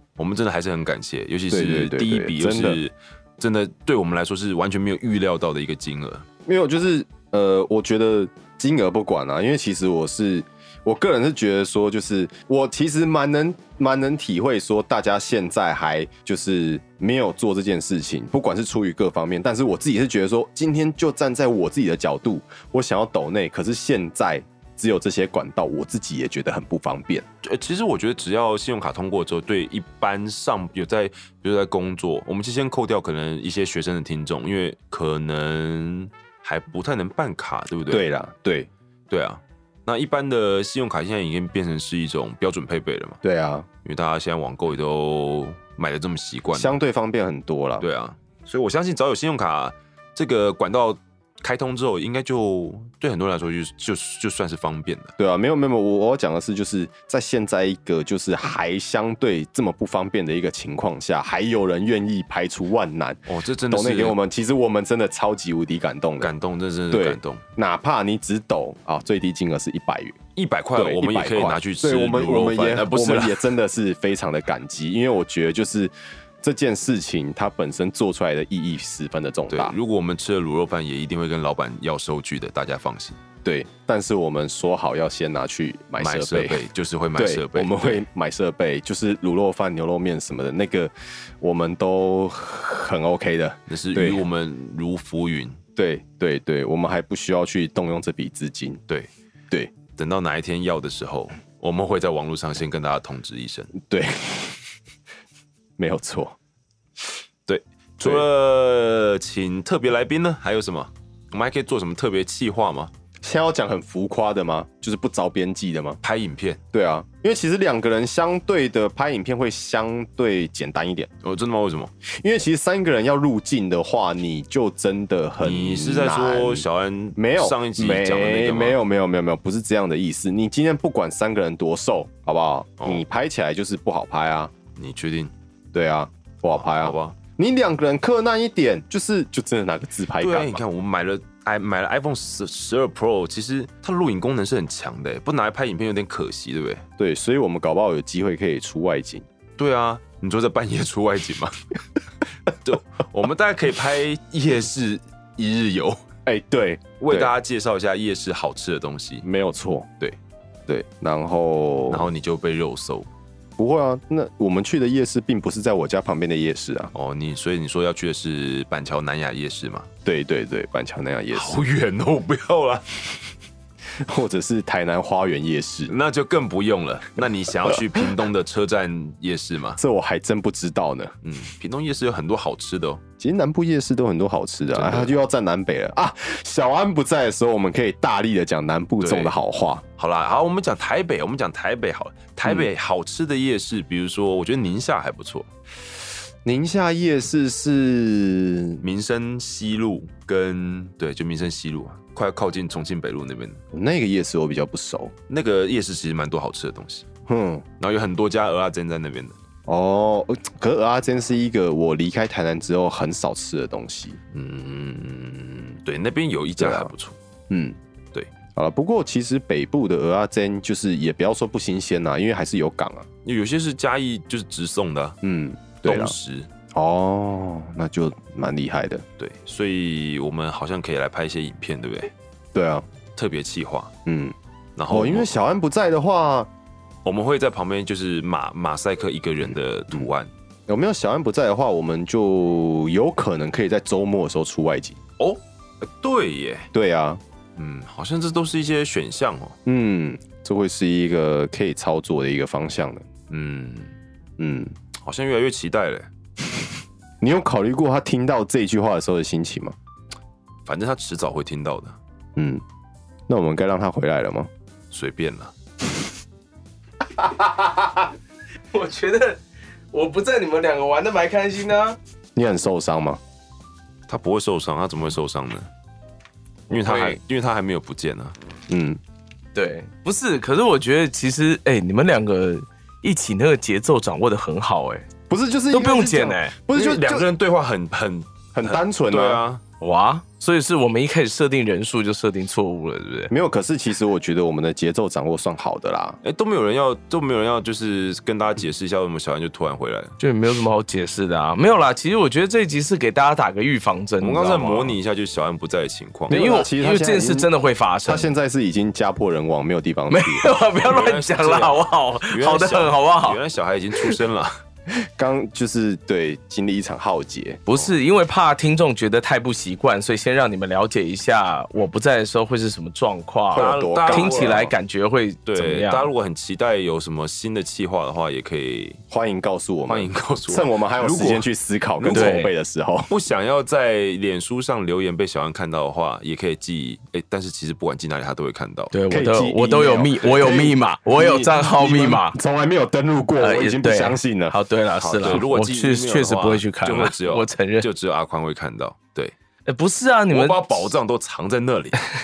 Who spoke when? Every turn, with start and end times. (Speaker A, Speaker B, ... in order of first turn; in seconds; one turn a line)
Speaker A: 0.2-6.3
Speaker B: 1.5-2.8
Speaker B: 6.5-27.3
Speaker A: 27.4-38.0
Speaker B: 37.9-38.7
Speaker A: 39.1-43.2
Speaker B: 43.2-43.7
Speaker A: 43.9-46.8
Speaker B: 46.5-47.9
Speaker A: 47.8-55.1
Speaker B: 55.2-66.3
Speaker A: 63.3-64.2
Speaker A: 66.2-67.4
Speaker B: 66.9-70.2
Speaker A: 70.4-73.5
Speaker B: 70.8-79.8
Speaker A: 79.5-83.2
Speaker B: 83.4-86.6
Speaker A: 86.0-88.0
Speaker B: 87.2-94.2
Speaker A: 93.7-95.6
Speaker B: 95.8-98.8
Speaker A: 100.0-103.7
Speaker B: 103.8-104.6
Speaker B: 105.8-106.4
Speaker A: 107.5-112.9
Speaker B: 108.0-108.3
Speaker B: 113.2-116.0
Speaker A: 116.0-116.6
Speaker B: 116.7-121.1
Speaker A: 121.2-121.9
Speaker B: 122.1-134.5
Speaker A: 125.4-128.8
Speaker A: 134.8-135.3
Speaker B: 135.7-140.6
Speaker A: 136.5-137.2
Speaker A: 140.2-146.8
Speaker B: 147.0-149.3
Speaker A: 149.6-151.6
Speaker A: 152.5-156.0
Speaker B: 156.2-157.3
Speaker A: 157.0-159.2
Speaker B: 159.2-160.0
Speaker B: 160.7-162.1
Speaker A: 161.9-163.1
Speaker B: 163.6-166.9
Speaker A: 166.9-169.9
Speaker B: 170.1-171.6
Speaker A: 171.3-173.3
Speaker B: 173.9-175.9
Speaker A: 175.9-179.8
Speaker B: 179.8-181.1
Speaker A: 181.2-183.0
Speaker B: 183.2-189.8
Speaker A: 184.7-185.2
Speaker A: 189.0-189.4
Speaker A: 190.0-195.5
Speaker B: 196.4-198.8
Speaker A: 198.8-203.6
Speaker B: 203.7-205.1
Speaker A: 205.3-207.1
Speaker B: 207.3-207.7
Speaker A: 207.8-209.4
Speaker B: 209.7-214.2
Speaker A: 214.3-217.2
Speaker B: 216.6-216.9
Speaker B: 217.5-217.8
Speaker B: 218.6-223.1
Speaker A: 223.2-225.2
Speaker B: 225.2-226.2
Speaker A: 225.8-226.5
Speaker B: 226.7-229.1
Speaker A: 229.2-232.1
Speaker B: 232.5-232.9
Speaker A: 233.2-233.9
Speaker B: 234.1-234.4
Speaker A: 234.8-235.3
Speaker B: 234.9-236.5
Speaker A: 237.1-240.3
Speaker B: 240.7-245.0
Speaker A: 245.2-246.7
Speaker B: 246.7-247.2
Speaker A: 247.6-249.6
Speaker B: 249.7-253.1
Speaker A: 253.3-253.9
Speaker B: 254.4-254.8
Speaker A: 255.0-256.1
Speaker B: 257.2-259.8
Speaker A: 260.7-262.0
Speaker B: 262.4-262.6
Speaker B: 263.3-264.5
Speaker A: 264.9-265.5
Speaker B: 267.2-267.9
Speaker C: 268.7-269.4
Speaker C: 269.9-272.0
Speaker B: 272.4-273.2
Speaker A: 274.1-275.7
Speaker C: 276.7-277.2
Speaker A: 276.7-278.4
Speaker B: 278.7-279.0
Speaker C: 279.6-285.1
Speaker B: 285.3-287.3
Speaker C: 285.7-286.6
Speaker A: 286.7-289.6
Speaker B: 288.6-289.4
Speaker C: 289.8-293.3
Speaker B: 293.3-296.2
Speaker A: 296.2-300.2
Speaker C: 300.2-305.0
Speaker A: 304.2-306.4
Speaker B: 306.3-307.5
Speaker C: 306.3-308.3
Speaker B: 308.1-310.5
Speaker C: 310.1-313.4
Speaker A: 310.8-314.6
Speaker B: 314.9-317.6
Speaker C: 317.7-326.1
Speaker B: 323.5-324.7
Speaker A: 323.6-324.7
Speaker A: 325.5-329.0
Speaker B: 329.1-333.1
Speaker A: 329.9-331.5
Speaker A: 332.0-332.4
Speaker C: 332.1-332.5
Speaker A: 333.1-338.9
Speaker C: 338.9-342.4
Speaker B: 339.1-344.6
Speaker C: 343.4-347.9
Speaker A: 345.0-349.3
Speaker C: 349.7-350.9
Speaker A: 350.3-352.0